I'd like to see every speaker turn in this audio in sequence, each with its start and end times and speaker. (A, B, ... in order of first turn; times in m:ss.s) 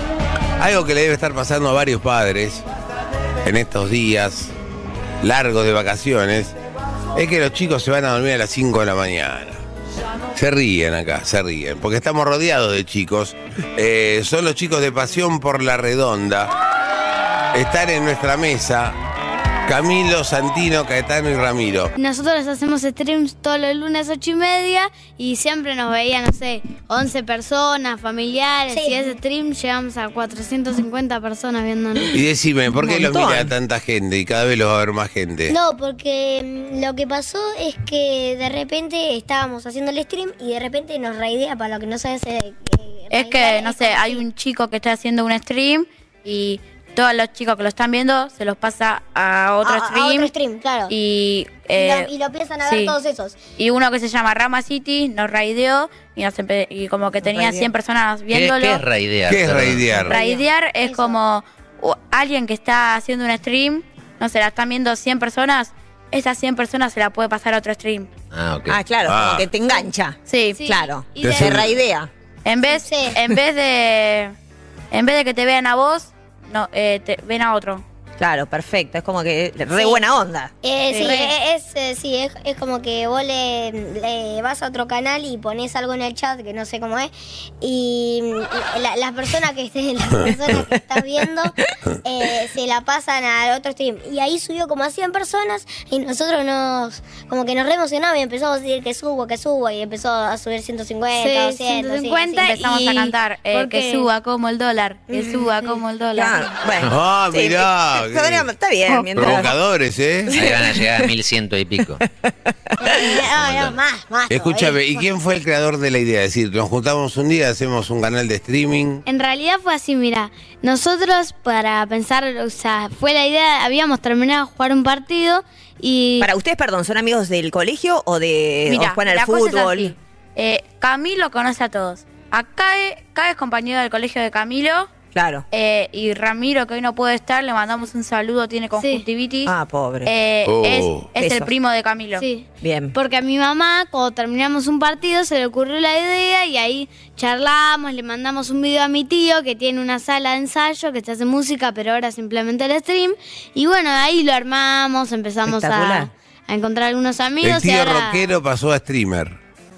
0:00.6-0:02.6 A
0:03.4-0:04.5 A
0:05.2-0:06.6 A
0:07.2-0:09.6 A
0:10.4-0:16.5 A
0:17.5-0:19.0 A
0:19.7-0:21.9 A
0:22.0-0:32.1 B
0:28.7-0:29.2 C
0:32.1-0:35.6 A
0:32.7-0:33.5 D
0:35.5-0:44.2 C
0:43.1-0:50.3 E
0:49.6-0:51.0 C
0:50.9-0:52.1 E
0:51.7-0:53.4 C
0:52.6-0:53.0 E
0:53.6-0:58.8 E
0:57.2-0:57.7 D
0:58.3-1:00.1 F
0:59.3-1:00.2 A
1:00.1-1:08.1 E
1:00.2-1:01.2 C
1:08.3-1:08.8 F
1:08.7-1:12.1 D
1:09.1-1:09.5 A
1:10.3-1:10.6 E
1:10.6-1:11.6 B
1:11.2-1:11.8 A
1:12.4-1:14.4 E
1:12.7-1:13.2 C
1:14.9-1:17.8 E
1:18.2-1:20.5 D
1:19.8-1:20.0 C
1:20.6-1:42.5 C
1:20.9-1:21.3 E
1:30.5-1:30.8 D
1:41.2-1:44.1 B
1:42.4-1:46.5 E
1:46.1-1:49.6 D
1:46.8-1:48.5 A
1:49.1-1:50.5 A
1:50.3-1:51.1 D
1:50.3-1:52.0 F
1:52.2-1:53.0 D
1:52.8-1:55.0 C
1:53.0-1:53.8 F
1:54.3-1:59.0 A
1:59.1-2:06.3 B
2:06.2-2:10.0 D
2:08.7-2:14.9 E
2:15.1-2:15.4 D
2:15.5-2:22.3 E
2:18.8-2:19.1 B
2:19.5-2:20.1 D
2:20.5-2:21.1 A
2:21.2-2:21.5 D
2:22.2-2:38.3 B
2:22.6-2:23.0 D
2:35.4-2:36.1 D
2:37.4-2:39.4 A